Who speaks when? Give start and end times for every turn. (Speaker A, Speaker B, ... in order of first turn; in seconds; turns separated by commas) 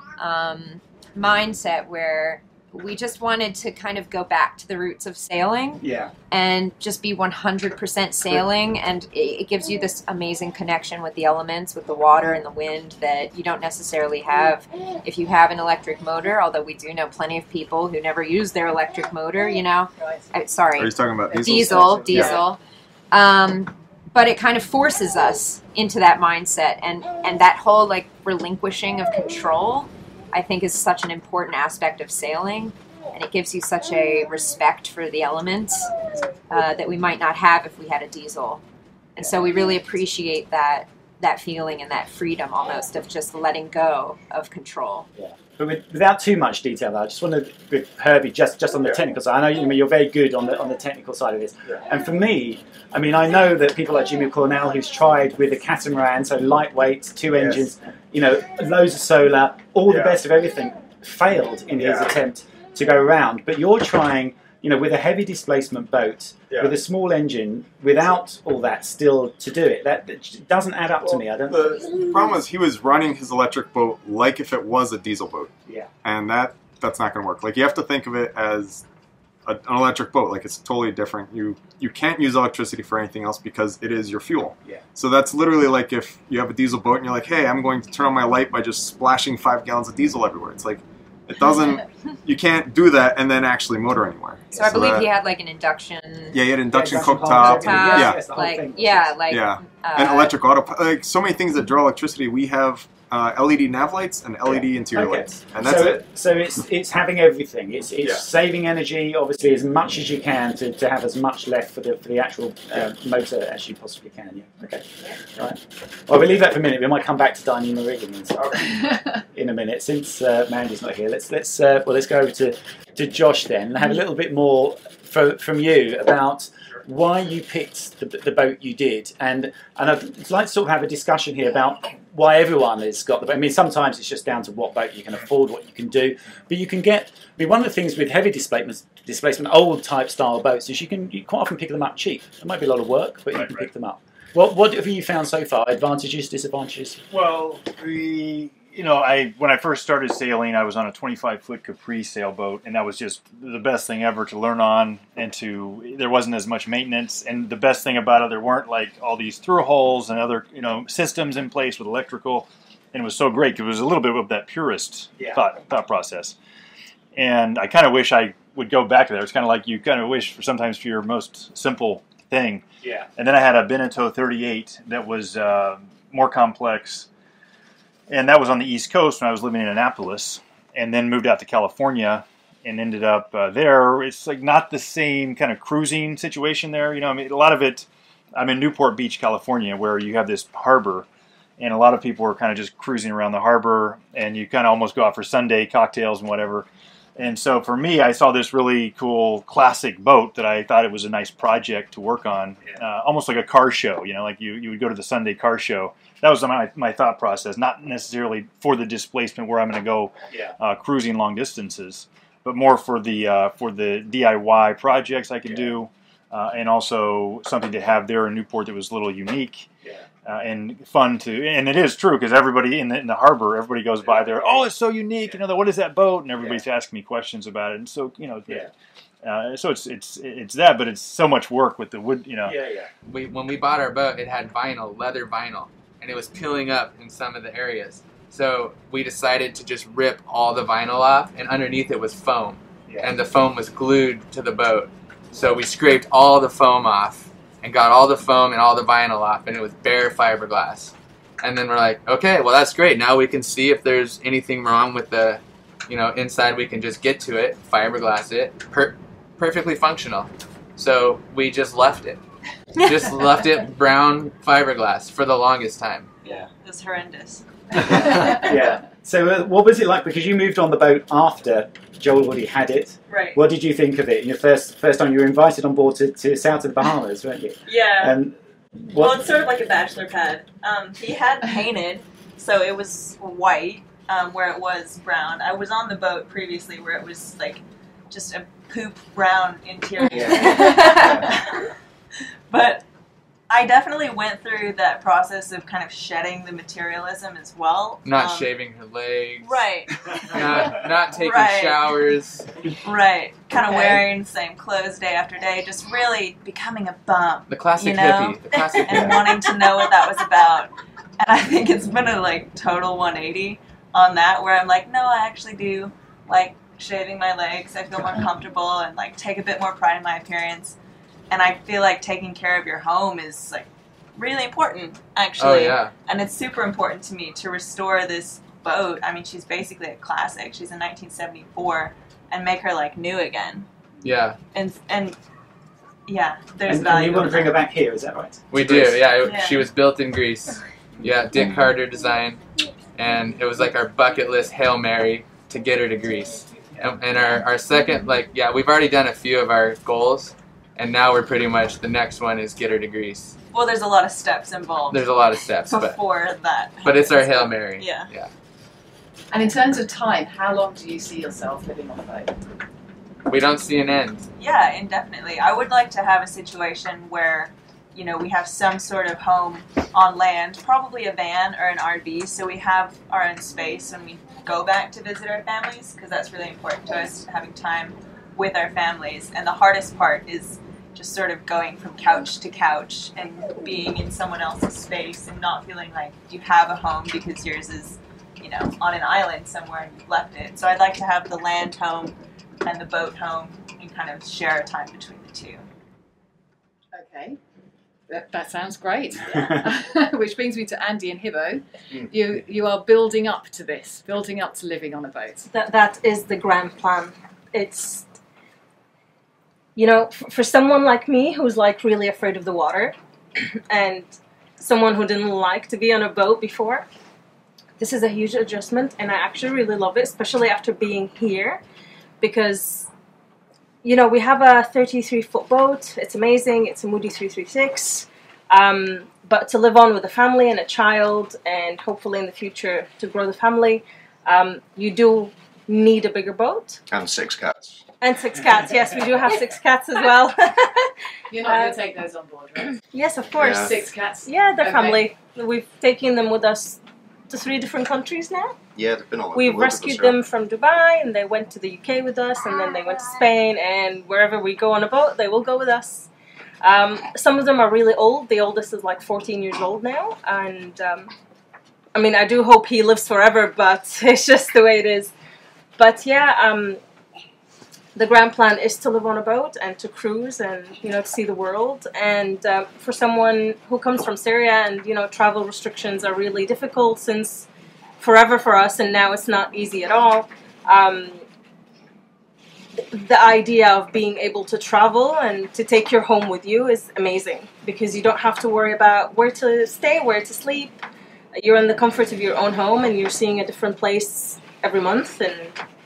Speaker A: 0.2-22.6, Speaker B: 5.8-6.1, Speaker C: 20.0-20.3, Speaker D: 20.8-22.4, Speaker C: 21.6-22.2, Speaker A: 23.1-35.9, Speaker A: 36.5-38.6, Speaker A: 39.1-45.1, Speaker B: 45.1-71.8, Speaker D: 57.3-57.6, Speaker D: 59.9-60.2, Speaker D: 61.8-62.1, Speaker D: 66.5-66.8, Speaker D: 71.0-75.5, Speaker D: 76.0-78.8, Speaker D: 79.5-95.1, Speaker A: 94.5-100.3, Speaker D: 96.3-98.2, Speaker B: 96.7-99.1, Speaker D: 99.3-106.0, Speaker B: 104.5-147.0, Speaker E: 143.3-143.7, Speaker E: 147.1-166.4, Speaker E: 167.1-172.6, Speaker B: 172.8-173.1, Speaker E: 173.2-177.1, Speaker E: 178.1-191.1, Speaker E: 191.6-219.7, Speaker B: 215.4-215.7, Speaker E: 220.2-228.7, Speaker B: 224.0-224.7, Speaker B: 226.4-226.6, Speaker E: 229.2-232.6, Speaker B: 232.4-232.9, Speaker F: 233.1-262.2, Speaker F: 262.8-266.1, Speaker G: 266.2-267.4, Speaker B: 267.8-278.4, Speaker G: 273.1-273.4, Speaker G: 277.6-278.1, Speaker B: 278.9-279.3, Speaker G: 279.0-291.5, Speaker B: 290.1-291.3, Speaker C: 290.5-291.0, Speaker G: 292.5-292.8, Speaker G: 293.5-298.5, Speaker F: 298.0-299.6, Speaker G: 299.4-302.1, Speaker F: 300.2-302.5, Speaker G: 302.8-320.8, Speaker F: 307.5-309.5, Speaker G: 321.3-333.7, Speaker F: 325.4-325.9, Speaker F: 334.0-334.4, Speaker G: 334.5-335.2, Speaker G: 336.1-337.6, Speaker B: 336.6-339.0, Speaker F: 338.5-342.4, Speaker G: 339.2-339.7, Speaker F: 342.9-353.4, Speaker G: 353.5-355.1, Speaker F: 354.9-356.0, Speaker G: 355.6-358.1, Speaker F: 356.8-358.3, Speaker C: 359.3-362.3, Speaker F: 363.3-364.3, Speaker G: 364.4-395.6, Speaker C: 396.9-397.4, Speaker C: 398.1-405.5, Speaker H: 405.5-408.1, Speaker H: 409.8-416.9, Speaker H: 417.8-421.6, Speaker H: 422.2-422.9, Speaker H: 423.8-436.8, Speaker I: 436.9-437.8, Speaker H: 438.0-440.9, Speaker C: 441.3-442.8, Speaker H: 441.4-441.8, Speaker H: 442.9-443.7, Speaker I: 443.3-443.8, Speaker C: 443.5-445.0, Speaker H: 444.2-448.6, Speaker I: 448.7-450.2, Speaker H: 449.3-456.1, Speaker H: 456.6-461.1, Speaker H: 461.9-465.1, Speaker H: 465.8-466.8, Speaker H: 467.9-477.5, Speaker H: 478.0-481.2, Speaker H: 482.9-490.8, Speaker H: 491.3-495.6